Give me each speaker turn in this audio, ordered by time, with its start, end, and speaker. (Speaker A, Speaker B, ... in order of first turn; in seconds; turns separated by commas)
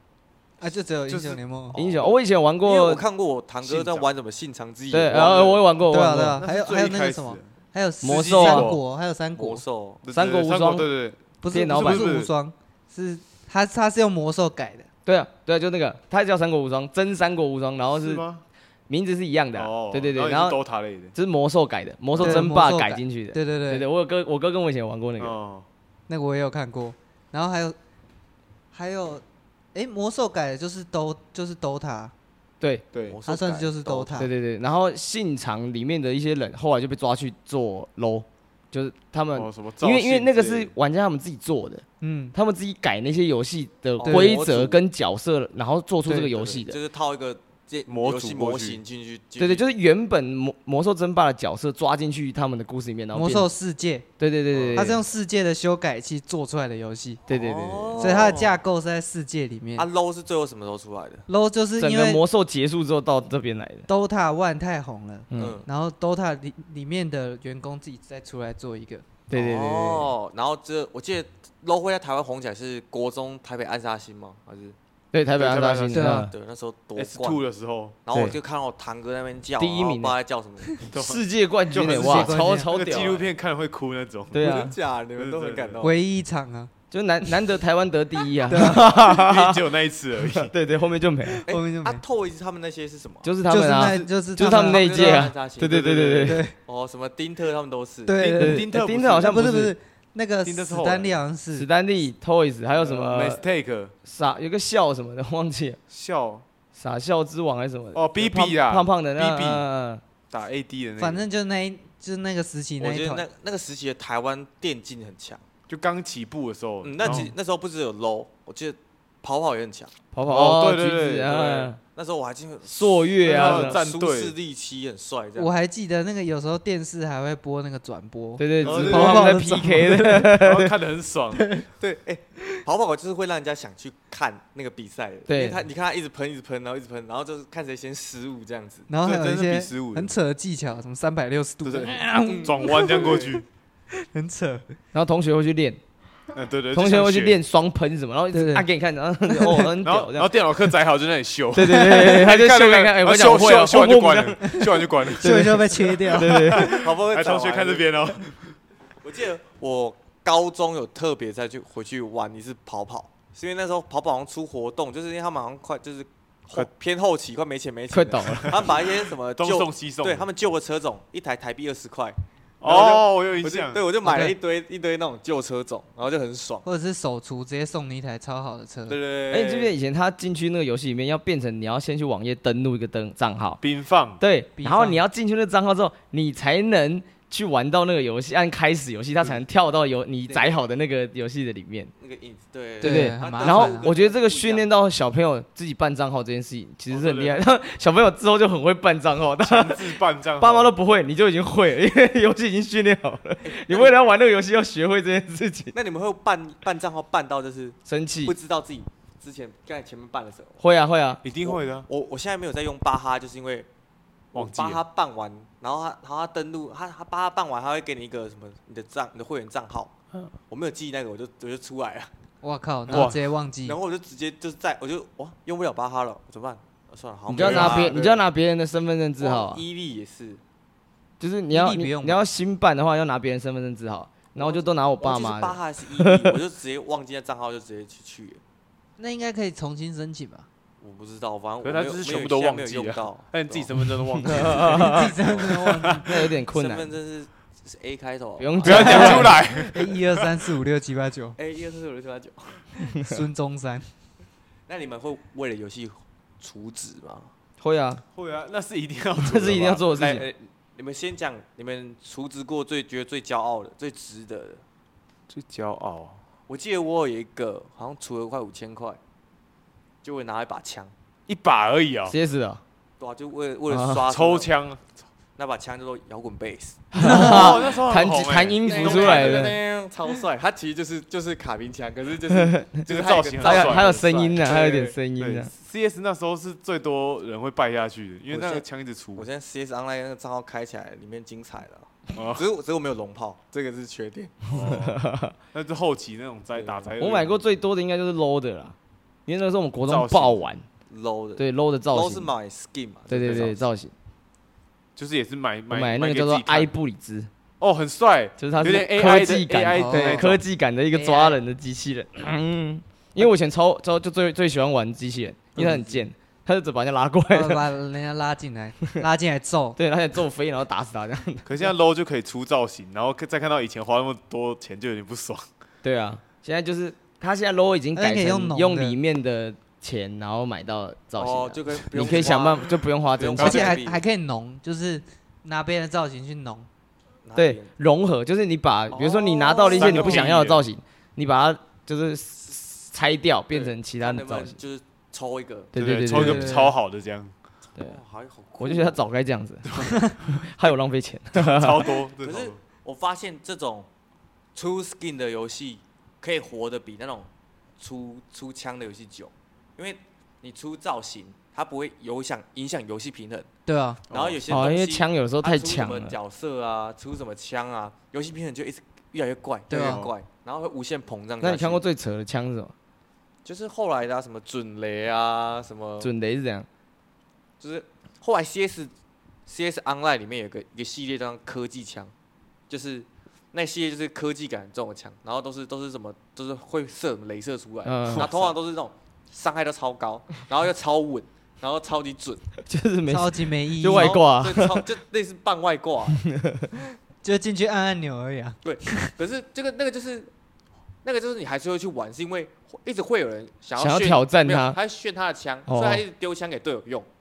Speaker A: 0.6-1.8, Speaker B: 1.1-1.4, Speaker C: 1.7-2.1, Speaker D: 1.7-3.0, Speaker C: 2.6-5.5, Speaker B: 3.6-4.1, Speaker D: 4.9-6.4, Speaker B: 5.1-5.7, Speaker A: 5.9-9.6, Speaker B: 6.3-7.5, Speaker D: 8.0-8.7, Speaker B: 8.0-8.8, Speaker C: 9.3-10.0, Speaker B: 10.0-12.3, Speaker D: 10.1-10.9, Speaker A: 11.4-14.9, Speaker D: 11.5-12.1, Speaker D: 15.1-18.2, Speaker B: 17.9-18.4, Speaker D: 18.9-20.6, Speaker B: 19.5-21.1, Speaker D: 21.1-25.4, Speaker B: 22.1-22.5, Speaker A: 22.2-23.8, Speaker B: 25.2-25.7, Speaker A: 26.1-27.8, Speaker A: 28.7-32.1, Speaker C: 33.1-34.2, Speaker A: 33.3-34.3, Speaker D: 34.2-46.8, Speaker B: 39.3-40.7, Speaker A: 42.0-42.3, Speaker C: 44.0-44.8, Speaker A: 44.0-44.4, Speaker A: 46.1-46.3, Speaker C: 46.4-49.6, Speaker B: 47.9-48.8, Speaker D: 49.4-53.5, Speaker A: 53.1-54.1, Speaker D: 54.2-55.0, Speaker C: 54.5-54.8, Speaker A: 54.7-57.2, Speaker D: 57.3-58.3, Speaker C: 57.3-58.6, Speaker A: 58.0-59.9, Speaker C: 59.8-61.2, Speaker A: 61.3-62.2, Speaker D: 61.8-63.9, Speaker A: 63.9-69.1, Speaker D: 65.3-65.6, Speaker C: 65.3-65.7, Speaker D: 69.3-70.1, Speaker C: 69.3-74.8, Speaker D: 75.1-76.3, Speaker B: 75.4-76.2, Speaker A: 75.9-76.3, Speaker C: 76.3-77.4, Speaker B: 77.0-78.0, Speaker C: 78.0-80.7, Speaker D: 79.6-80.2, Speaker D: 80.8-83.2, Speaker B: 80.9-84.5, Speaker A: 82.0-82.7, Speaker D: 84.3-84.7, Speaker C: 84.4-86.0, Speaker B: 85.2-85.8, Speaker A: 85.8-86.7, Speaker D: 86.9-89.6, Speaker A: 88.5-88.9, Speaker B: 88.5-90.5, Speaker D: 90.3-91.4, Speaker C: 91.4-93.3, Speaker A: 91.5-92.0, Speaker D: 93.2-96.4, Speaker A: 93.5-95.3, Speaker C: 94.5-95.9, Speaker B: 95.6-96.4, Speaker A: 96.2-96.5, Speaker C: 96.6-98.1, Speaker A: 98.0-101.7, Speaker B: 98.2-99.6, Speaker D: 98.4-99.7, Speaker B: 100.4-101.2, Speaker D: 101.5-103.4, Speaker B: 102.8-103.9, Speaker D: 104.0-105.8, Speaker B: 105.9-106.4, Speaker D: 106.7-110.0, Speaker B: 107.9-109.6, Speaker B: 110.3-111.2, Speaker A: 111.0-113.2, Speaker C: 112.8-115.4, Speaker B: 115.7-117.3, Speaker C: 116.8-119.9, Speaker D: 120.1-121.8, Speaker B: 120.2-121.7, Speaker C: 121.9-125.5, Speaker D: 122.6-123.8, Speaker B: 123.2-124.3, Speaker A: 125.3-130.3, Speaker D: 128.4-130.7, Speaker B: 128.6-129.4, Speaker B: 130.3-131.5, Speaker A: 131.3-131.7, Speaker C: 131.8-138.9, Speaker D: 135.3-135.6, Speaker A: 138.9-143.2, Speaker B: 139.0-140.1, Speaker B: 141.6-143.4, Speaker C: 142.2-143.4, Speaker A: 144.1-144.7, Speaker D: 144.9-145.8, Speaker B: 146.3-147.4, Speaker D: 146.7-150.3, Speaker A: 148.3-148.7, Speaker A: 149.3-149.7, Speaker B: 149.8-158.5, Speaker D: 151.5-156.8, Speaker A: 155.1-156.7, Speaker C: 156.6-157.9, Speaker C: 159.0-176.6, Speaker D: 167.9-168.7, Speaker B: 169.3-170.3, Speaker B: 172.6-173.8, Speaker A: 174.0-174.3, Speaker A: 176.6-179.0, Speaker C: 178.9-179.7, Speaker D: 179.3-183.6, Speaker B: 183.6-184.2, Speaker D: 184.2-191.9, Speaker A: 184.6-185.0, Speaker C: 190.2-190.6, Speaker C: 192.0-194.7, Speaker A: 192.8-193.9, Speaker D: 192.8-205.7, Speaker B: 196.9-197.4, Speaker B: 199.4-200.7, Speaker C: 203.4-204.0, Speaker C: 205.7-210.6, Speaker D: 207.8-208.3, Speaker D: 210.6-211.2, Speaker B: 211.2-211.9, Speaker C: 211.4-213.7, Speaker C: 214.3-219.9, Speaker B: 214.3-214.8, Speaker C: 220.5-222.1, Speaker A: 222.4-223.8, Speaker B: 222.9-223.2, Speaker C: 223.6-228.2, Speaker D: 227.3-229.6, Speaker B: 227.4-227.9, Speaker C: 229.2-230.4, Speaker D: 231.2-236.4, Speaker A: 231.5-232.2, Speaker C: 234.3-238.4, Speaker A: 239.0-240.5, Speaker C: 240.8-243.7, Speaker B: 241.6-246.1, Speaker D: 244.2-245.1, Speaker A: 244.7-246.1, Speaker D: 245.9-246.9, Speaker C: 246.5-249.4, Speaker D: 248.4-249.4, Speaker B: 248.6-250.3, Speaker A: 248.8-251.4, Speaker C: 251.4-252.7, Speaker A: 252.8-253.9, Speaker C: 254.7-257.3, Speaker D: 257.6-258.0, Speaker B: 258.1-260.2, Speaker D: 259.2-260.2, Speaker C: 259.9-264.6, Speaker B: 265.3-266.2, Speaker C: 266.5-269.0, Speaker C: 270.0-270.9, Speaker B: 271.3-272.1, Speaker D: 272.1-272.6, Speaker C: 273.0-274.5, Speaker D: 273.7-274.0, Speaker B: 274.1-275.0, Speaker C: 275.4-277.8, Speaker D: 276.9-279.6, Speaker A: 277.0-277.3, Speaker B: 277.0-279.5, Speaker C: 278.6-284.9, Speaker D: 282.3-282.8, Speaker B: 282.9-284.4, Speaker D: 283.4-285.5, Speaker B: 285.2-289.3, Speaker C: 288.3-288.6, Speaker C: 289.1-294.7, Speaker B: 292.1-292.4, Speaker B: 294.5-295.0, Speaker D: 294.7-295.3, Speaker B: 295.5-297.4, Speaker C: 296.5-296.9, Speaker D: 297.0-298.7, Speaker D: 299.3-300.6, Speaker B: 299.8-300.4, Speaker C: 300.9-303.6, Speaker D: 301.4-302.3, Speaker D: 303.1-303.9, Speaker B: 304.9-306.7, Speaker D: 305.7-307.3, Speaker B: 307.6-310.4, Speaker D: 308.4-317.7, Speaker A: 309.7-310.2, Speaker A: 310.9-311.4, Speaker B: 315.6-315.9, Speaker A: 317.3-319.8, Speaker D: 319.8-321.5, Speaker B: 321.4-325.4, Speaker D: 325.8-333.8, Speaker A: 327.9-329.0, Speaker C: 331.1-334.0, Speaker A: 333.4-336.7, Speaker C: 337.2-337.7, Speaker D: 337.4-344.6, Speaker C: 338.9-340.3, Speaker B: 339.8-340.7, Speaker C: 343.5-345.7, Speaker D: 345.7-346.7, Speaker B: 345.8-347.3, Speaker A: 346.1-346.7, Speaker C: 347.8-349.0, Speaker D: 348.6-351.9, Speaker B: 349.7-350.4, Speaker B: 351.3-352.6, Speaker C: 352.2-353.9, Speaker C: 354.5-363.5, Speaker A: 363.6-364.0, Speaker C: 364.1-371.8, Speaker B: 364.1-364.4, Speaker D: 364.5-366.1, Speaker A: 369.7-370.1, Speaker B: 369.8-370.1, Speaker D: 371.4-372.7, Speaker C: 373.4-376.1, Speaker D: 376.0-376.7, Speaker C: 377.6-378.9, Speaker C: 379.4-382.1, Speaker C: 382.7-392.4, Speaker D: 387.8-388.4, Speaker B: 388.1-388.5, Speaker D: 392.7-394.8, Speaker A: 393.1-394.2, Speaker C: 393.9-396.3, Speaker D: 396.3-396.7, Speaker A: 397.2-399.1, Speaker C: 398.6-400.3, Speaker C: 401.0-407.1, Speaker D: 403.8-404.8, Speaker D: 405.7-406.0